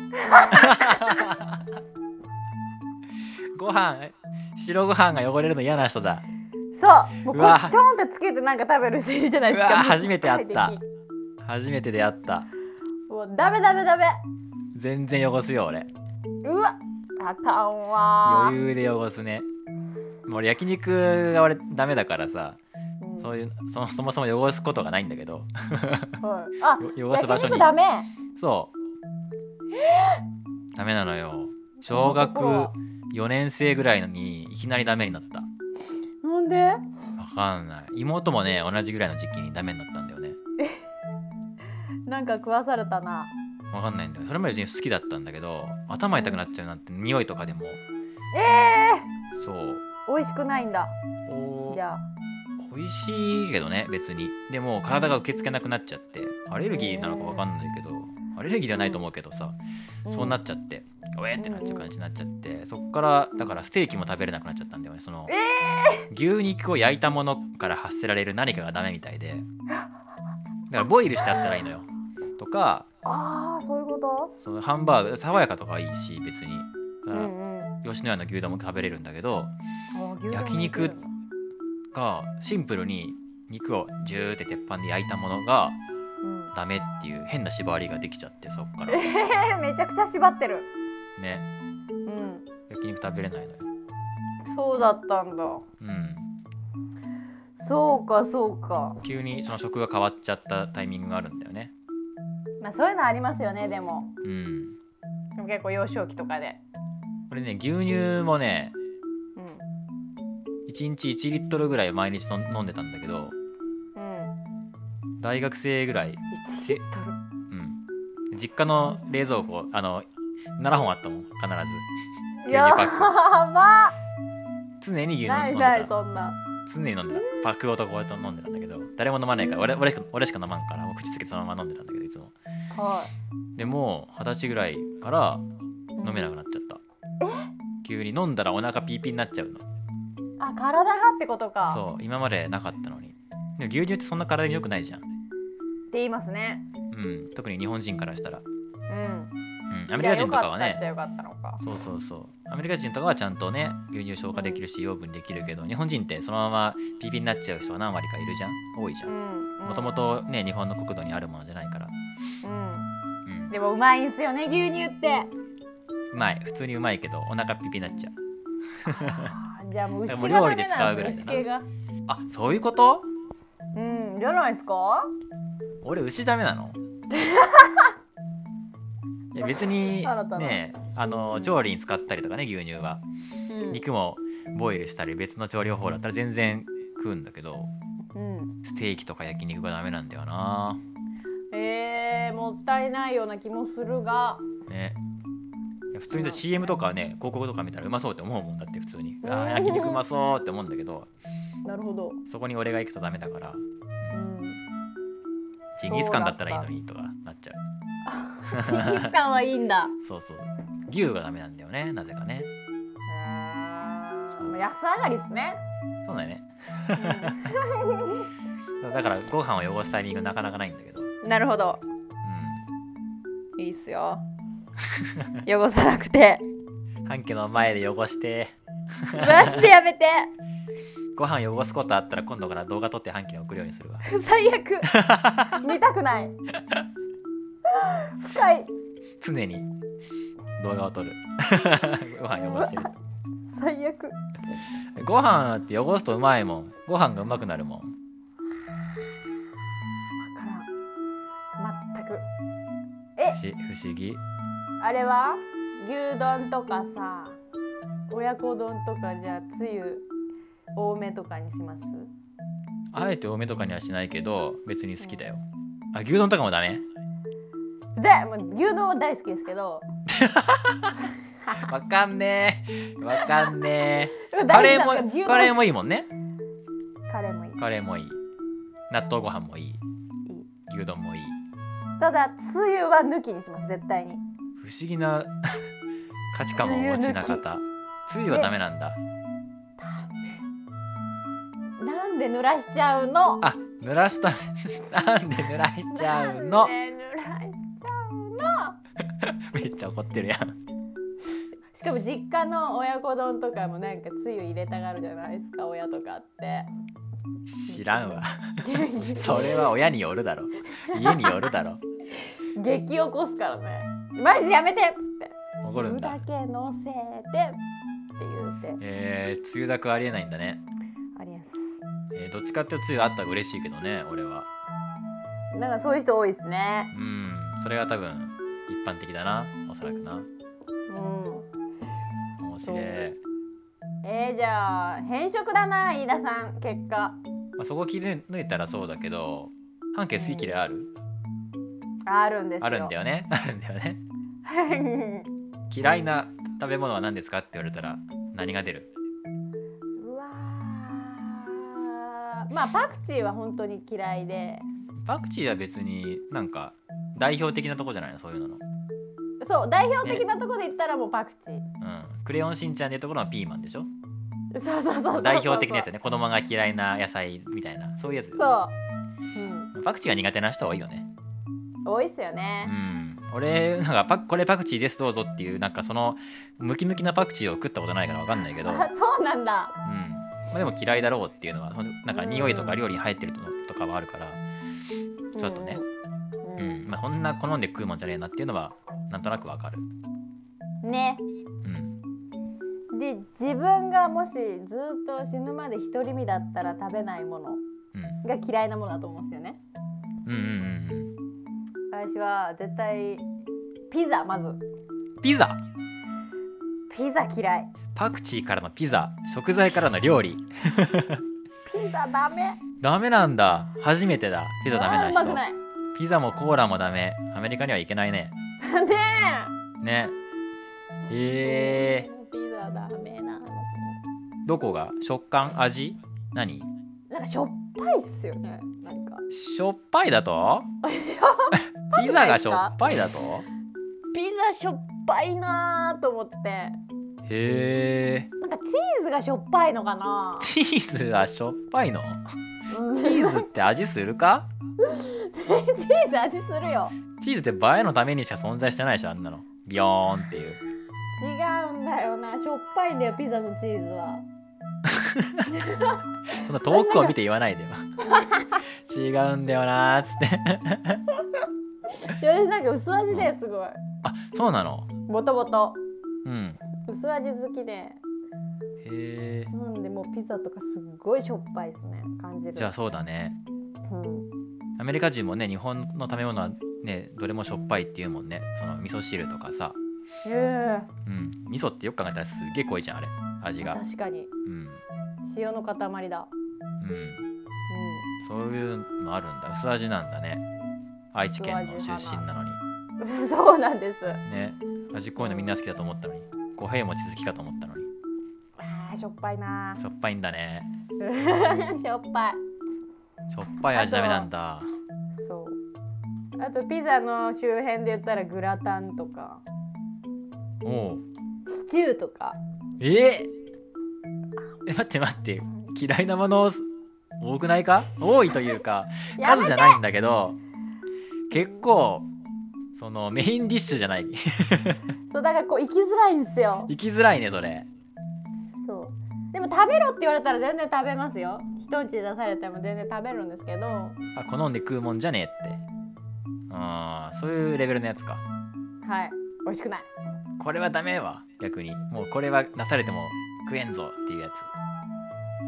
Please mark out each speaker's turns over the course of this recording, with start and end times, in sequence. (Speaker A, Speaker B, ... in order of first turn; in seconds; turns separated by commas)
Speaker A: 0.1-1.3, Speaker B: 0.5-1.6, Speaker B: 3.5-6.2, Speaker A: 6.8-10.8, Speaker B: 7.3-7.8, Speaker B: 9.5-10.8, Speaker B: 11.4-12.5, Speaker A: 13.1-14.2, Speaker B: 14.7-15.9, Speaker A: 16.4-18.6, Speaker B: 18.2-19.5, Speaker B: 20.2-22.6, Speaker A: 23.0-23.3, Speaker B: 23.2-26.2, Speaker A: 26.2-28.1, Speaker B: 26.8-27.7, Speaker B: 28.4-28.7, Speaker A: 29.7-30.2, Speaker B: 30.7-35.5, Speaker A: 31.8-32.7, Speaker A: 36.2-36.9, Speaker B: 37.2-40.4, Speaker A: 42.1-43.3, Speaker B: 43.7-47.8, Speaker A: 46.1-46.4, Speaker A: 48.3-49.1, Speaker B: 49.4-49.8, Speaker A: 50.1-50.9, Speaker B: 51.3-51.8, Speaker A: 51.7-52.0, Speaker B: 52.6-65.3, Speaker A: 56.7-57.5, Speaker A: 58.8-59.0, Speaker A: 60.0-60.4, Speaker A: 61.4-61.9, Speaker A: 65.3-66.1, Speaker B: 66.1-69.5, Speaker B: 70.7-71.9, Speaker B: 72.4-72.9, Speaker A: 73.0-74.3, Speaker B: 74.4-77.3, Speaker A: 77.1-77.7, Speaker B: 77.8-79.5, Speaker A: 79.9-81.1, Speaker B: 80.3-80.9, Speaker B: 81.9-85.8, Speaker A: 86.2-86.5, Speaker B: 86.5-89.0, Speaker A: 88.9-90.7, Speaker B: 91.2-91.5, Speaker A: 92.0-92.5, Speaker B: 92.7-93.6, Speaker A: 94.5-95.6, Speaker B: 95.8-96.3, Speaker A: 97.6-99.0, Speaker B: 99.0-101.7, Speaker A: 102.6-104.1, Speaker B: 104.2-104.8, Speaker A: 105.4-106.6, Speaker B: 107.3-108.7, Speaker A: 109.4-109.6, Speaker B: 110.7-113.3, Speaker A: 114.0-114.3, Speaker B: 115.2-116.8, Speaker A: 116.3-117.2, Speaker B: 117.5-117.8, Speaker B: 118.3-121.9, Speaker A: 122.4-124.0, Speaker B: 122.5-123.1, Speaker B: 124.8-125.9, Speaker A: 125.2-126.4, Speaker B: 126.7-132.3, Speaker A: 127.1-127.4, Speaker A: 129.4-129.7, Speaker A: 132.7-133.1, Speaker B: 133.6-135.4, Speaker A: 136.0-136.3, Speaker B: 136.0-136.8, Speaker A: 137.2-137.5, Speaker B: 137.8-139.6, Speaker A: 140.4-141.8, Speaker B: 141.7-145.0, Speaker A: 145.9-146.6, Speaker B: 146.9-148.4, Speaker A: 148.9-149.3, Speaker B: 149.7-150.8, Speaker A: 149.9-151.6, Speaker B: 151.6-159.1, Speaker A: 154.3-154.6, Speaker A: 159.1-160.0, Speaker B: 159.7-161.9, Speaker A: 162.4-162.9, Speaker B: 163.2-163.5, Speaker A: 163.5-165.3, Speaker B: 166.1-168.2, Speaker B: 168.8-169.4, Speaker A: 168.9-171.7, Speaker B: 170.1-171.4, Speaker B: 172.1-173.1, Speaker A: 173.7-175.1, Speaker B: 175.8-176.8, Speaker A: 177.1-177.9, Speaker B: 179.3-183.0, Speaker A: 179.4-180.6, Speaker A: 183.5-183.8, Speaker B: 183.7-187.7, Speaker A: 188.1-188.5, Speaker B: 188.6-190.8, Speaker A: 191.5-194.4, Speaker B: 194.7-195.0, Speaker B: 195.9-201.1, Speaker A: 196.1-196.6, Speaker A: 199.2-200.0, Speaker A: 201.6-202.2, Speaker B: 202.2-204.1, Speaker A: 204.1-204.6, Speaker B: 205.8-207.6, Speaker A: 205.9-206.7, Speaker A: 208.1-209.9, Speaker B: 208.5-209.2, Speaker B: 210.0-212.5, Speaker A: 213.1-215.6, Speaker B: 214.3-214.6, Speaker B: 216.0-217.4, Speaker A: 216.9-218.3, Speaker B: 218.8-221.1, Speaker A: 221.2-221.8, Speaker B: 222.2-222.6, Speaker A: 223.6-224.2, Speaker B: 224.9-225.4, Speaker A: 225.4-226.4, Speaker B: 227.1-229.7, Speaker A: 229.1-230.3, Speaker B: 231.2-234.0, Speaker A: 234.0-234.9, Speaker B: 234.9-235.7, Speaker A: 235.5-236.3, Speaker A: 237.7-238.7, Speaker B: 239.2-239.7, Speaker B: 240.6-242.9, Speaker A: 242.3-242.9, Speaker A: 243.5-244.2, Speaker B: 245.0-247.9, Speaker A: 250.2-250.7, Speaker A: 251.6-252.2, Speaker B: 253.3-254.2, Speaker A: 254.8-257.4, Speaker A: 258.1-260.1, Speaker A: 260.8-262.1, Speaker B: 262.9-266.8, Speaker A: 267.9-269.9, Speaker B: 270.1-271.0, Speaker B: 271.5-276.1, Speaker A: 273.1-273.6, Speaker A: 274.2-275.6, Speaker A: 277.1-277.6, Speaker B: 277.6-278.2, Speaker B: 278.9-279.8, Speaker B: 280.7-281.4, Speaker A: 282.0-284.2, Speaker B: 284.6-285.6, Speaker B: 286.3-289.0, Speaker A: 286.5-287.4, Speaker A: 289.8-290.3, Speaker A: 291.8-293.4, Speaker B: 293.4-296.7, Speaker A: 295.9-298.8, Speaker B: 299.1-300.6, Speaker A: 301.2-306.7, Speaker B: 307.4-311.8, Speaker A: 307.7-309.7, Speaker A: 310.9-311.4, Speaker A: 312.5-317.6, Speaker B: 315.6-316.2, Speaker A: 318.2-318.8, Speaker B: 318.8-320.6, Speaker A: 321.1-321.8, Speaker B: 322.1-324.5, Speaker A: 325.5-326.9, Speaker B: 326.9-330.3, Speaker A: 330.9-331.5, Speaker B: 332.4-333.2, Speaker A: 332.5-333.0, Speaker A: 334.0-337.2, Speaker B: 337.6-340.9, Speaker A: 340.1-340.5, Speaker A: 342.1-342.9, Speaker B: 342.6-344.0, Speaker A: 344.4-345.3, Speaker B: 345.7-348.9, Speaker A: 350.0-354.6, Speaker B: 355.0-358.6, Speaker A: 359.4-361.6, Speaker B: 361.8-363.9, Speaker A: 364.5-365.9, Speaker B: 365.1-368.6, Speaker A: 368.4-368.7, Speaker A: 369.3-369.7, Speaker B: 369.7-371.1, Speaker A: 371.9-372.7, Speaker B: 372.6-378.9, Speaker A: 378.5-379.8, Speaker B: 379.8-384.4, Speaker A: 382.1-382.8, Speaker A: 385.3-385.9, Speaker B: 385.4-385.8, Speaker A: 386.4-386.8, Speaker B: 386.6-389.9, Speaker A: 390.8-391.2, Speaker B: 391.6-391.9, Speaker A: 392.9-397.6, Speaker B: 397.9-398.2, Speaker A: 398.2-399.6, Speaker B: 400.2-401.1, Speaker A: 401.9-403.2, Speaker A: 403.9-404.6, Speaker B: 405.2-405.6, Speaker A: 406.9-407.7, Speaker B: 407.9-411.2, Speaker A: 411.6-412.6, Speaker B: 412.8-415.4, Speaker A: 414.7-415.6, Speaker B: 415.9-418.3, Speaker A: 418.6-419.5, Speaker B: 419.8-420.1, Speaker B: 421.1-422.1, Speaker A: 421.4-423.9, Speaker B: 424.4-426.7, Speaker A: 427.1-429.2, Speaker B: 429.3-430.7, Speaker A: 430.8-432.8, Speaker B: 431.9-433.4, Speaker A: 434.1-436.8, Speaker B: 437.3-438.3, Speaker A: 438.4-440.5, Speaker B: 440.4-442.2, Speaker A: 442.7-443.4, Speaker B: 442.9-444.5, Speaker A: 444.8-446.9, Speaker B: 447.2-450.6, Speaker A: 451.1-454.2, Speaker B: 454.9-455.6, Speaker A: 455.5-457.1, Speaker B: 456.4-457.9, Speaker A: 458.1-458.6, Speaker B: 458.9-461.0, Speaker A: 461.9-463.8, Speaker B: 464.0-464.9, Speaker A: 465.1-465.8, Speaker B: 466.2-466.6, Speaker A: 466.8-468.0, Speaker B: 468.8-469.5, Speaker A: 469.5-472.7, Speaker B: 472.5-473.4, Speaker A: 473.9-474.3, Speaker B: 474.8-479.8, Speaker A: 480.2-480.9, Speaker B: 481.1-483.8, Speaker A: 483.6-484.3, Speaker B: 484.4-484.8, Speaker A: 485.3-486.3, Speaker B: 486.8-487.2, Speaker A: 487.7-488.1, Speaker B: 488.2-490.4, Speaker B: 491.1-492.6, Speaker A: 491.4-492.2, Speaker A: 493.0-494.2, Speaker B: 494.2-497.9, Speaker A: 495.2-495.5, Speaker A: 498.6-499.8, Speaker B: 499.8-500.7, Speaker A: 501.0-502.4, Speaker B: 503.3-504.7, Speaker A: 503.7-504.3, Speaker A: 505.1-505.6, Speaker A: 506.4-509.4, Speaker B: 510.6-511.0, Speaker A: 511.5-512.4, Speaker B: 512.8-513.3, Speaker B: 514.6-516.6, Speaker B: 517.2-520.4, Speaker A: 519.1-519.8, Speaker B: 521.3-522.1, Speaker A: 521.3-521.6, Speaker B: 522.7-524.8, Speaker A: 525.1-526.7, Speaker B: 526.7-527.7, Speaker A: 528.6-534.0, Speaker B: 534.1-535.6, Speaker B: 536.5-538.2, Speaker A: 538.8-539.9, Speaker B: 540.4-544.5